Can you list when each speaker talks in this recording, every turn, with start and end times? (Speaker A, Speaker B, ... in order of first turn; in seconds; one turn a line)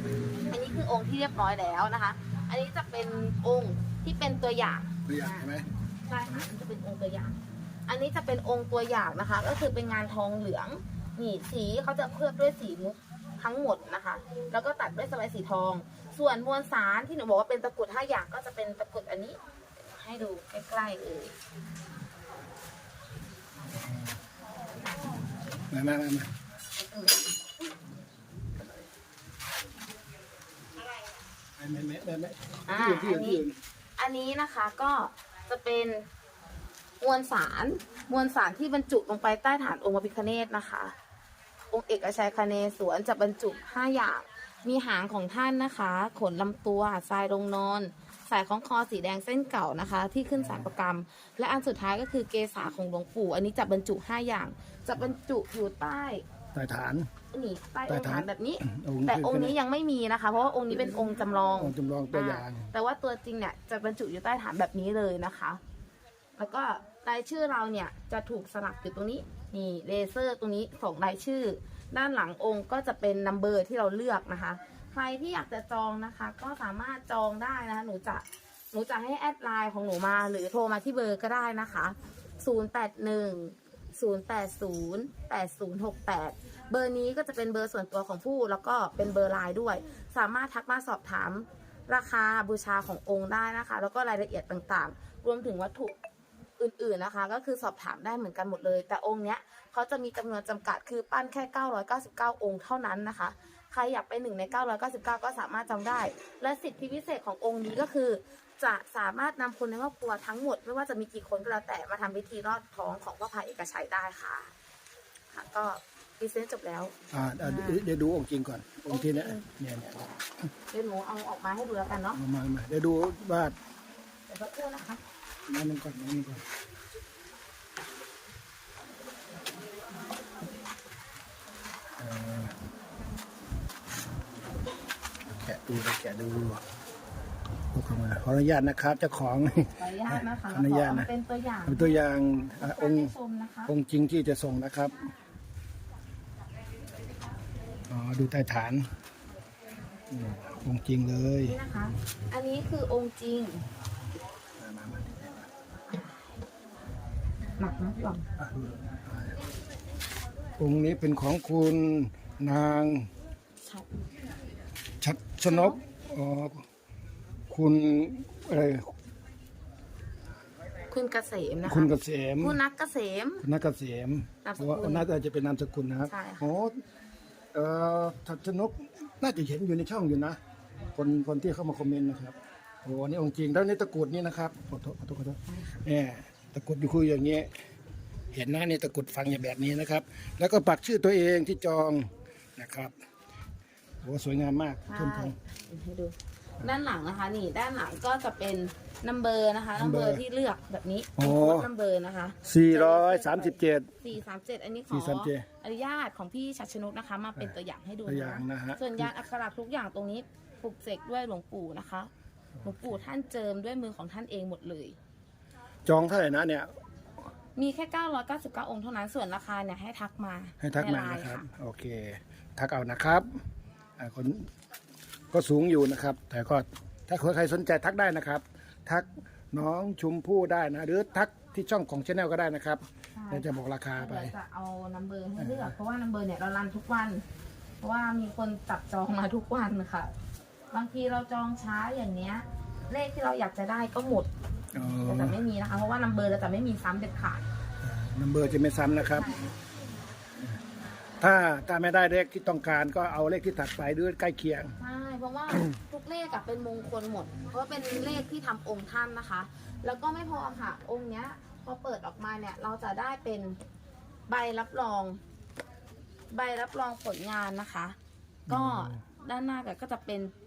Speaker A: 0.5-5.5
Speaker B: 5.0-5.7
Speaker A: 6.0-21.3
Speaker B: 23.7-24.1
Speaker B: 25.7-26.3
Speaker A: 26.8-27.4
Speaker B: 31.6-33.6
Speaker A: 32.7-33.4
Speaker A: 34.0-36.1
Speaker A: 37.0-40.9
Speaker A: 41.7-56.2
Speaker B: 50.4-50.7
Speaker B: 56.5-57.1
Speaker A: 57.3-65.6
Speaker B: 57.9-59.5
Speaker B: 61.5-62.7
Speaker A: 66.4-96.0
Speaker A: 96.6-114.5
Speaker A: 115.3-117.8
Speaker B: 117.1-120.1
Speaker A: 118.9-119.5
Speaker A: 120.7-122.2
Speaker B: 122.1-123.5
Speaker A: 124.3-125.0
Speaker B: 125.5-126.4
Speaker B: 132.0-132.5
Speaker B: 135.3-136.6
Speaker B: 137.7-141.1
Speaker A: 139.8-142.0
Speaker B: 141.7-143.1
Speaker A: 142.6-143.7
Speaker B: 143.7-145.1
Speaker B: 147.9-148.9
Speaker B: 150.1-151.6
Speaker A: 151.4-153.7
Speaker B: 154.6-155.5
Speaker A: 157.6-158.3
Speaker B: 158.4-159.4
Speaker B: 160.6-163.1
Speaker A: 163.6-163.9
Speaker B: 165.0-166.6
Speaker A: 165.4-165.8
Speaker B: 167.5-168.9
Speaker A: 170.9-173.4
Speaker B: 171.6-172.6
Speaker B: 173.4-176.8
Speaker A: 174.4-175.1
Speaker A: 176.1-176.5
Speaker B: 177.5-180.4
Speaker B: 180.9-187.5
Speaker A: 185.5-185.8
Speaker B: 188.3-192.9
Speaker B: 194.0-195.3
Speaker A: 194.9-212.1
Speaker B: 199.8-200.2
Speaker B: 201.2-201.7
Speaker B: 202.4-203.9
Speaker B: 204.9-205.4
Speaker B: 208.1-209.1
Speaker B: 212.6-213.0
Speaker A: 212.6-214.9
Speaker B: 215.8-216.7
Speaker A: 217.6-221.4
Speaker B: 220.6-223.2
Speaker B: 224.0-224.5
Speaker B: 225.3-234.3
Speaker A: 233.1-237.2
Speaker B: 235.4-235.7
Speaker A: 237.8-240.1
Speaker A: 240.7-244.3
Speaker B: 244.7-245.4
Speaker A: 245.0-247.4
Speaker B: 247.8-249.3
Speaker A: 249.1-249.5
Speaker B: 251.2-254.7
Speaker A: 254.8-263.6
Speaker A: 264.3-265.2
Speaker A: 266.3-267.9
Speaker B: 268.5-269.0
Speaker A: 268.5-270.3